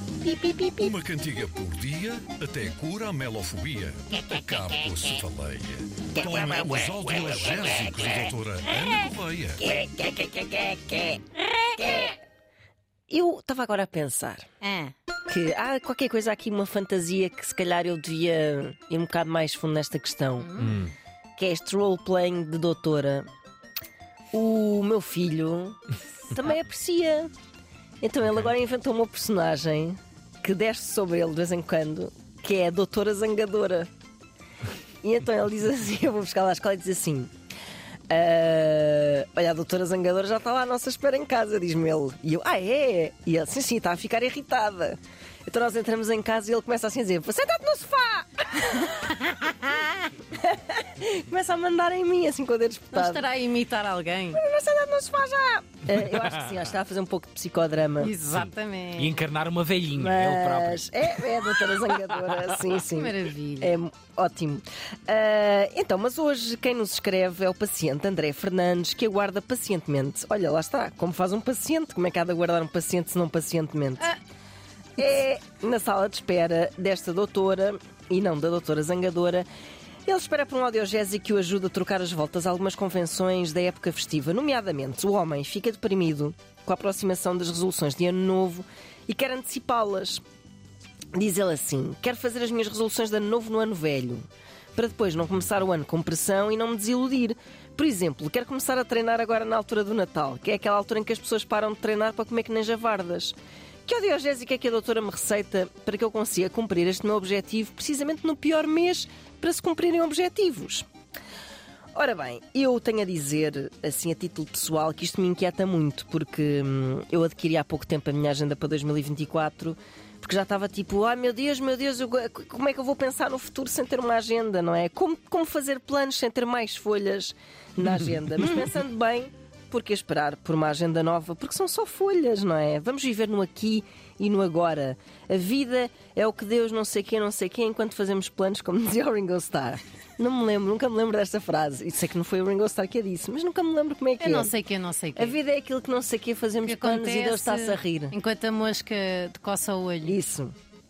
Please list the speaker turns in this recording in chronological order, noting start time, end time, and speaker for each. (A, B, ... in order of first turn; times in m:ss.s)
0:00.2-0:00.9 A
0:00.8-0:09.6 B
0:06.2-0:06.7 A
0:09.6-0:12.2 A
0:13.1-0:14.5 A
0:14.6-0:14.9 C
0:15.3-0:20.7 A
0:20.5-0:20.8 C
0:21.4-0:23.3 A
0:24.3-0:27.3 A
0:28.0-0:33.9 A
0:35.0-0:37.3 A
0:38.1-0:53.2 A
0:52.9-0:54.4 C
0:54.3-0:58.2 A
0:58.0-0:59.2 C
0:58.3-1:01.3 D
0:59.9-1:14.1 A
1:02.8-1:03.7 C
1:15.0-1:19.5 A
1:20.1-1:30.2 A
1:31.2-1:34.2 A
1:34.8-1:43.4 A
1:43.9-1:50.9 A
1:52.0-2:24.5 A
2:24.2-2:25.4 C
2:25.2-2:28.2 A
2:26.6-2:30.2 C
2:30.0-2:30.6 A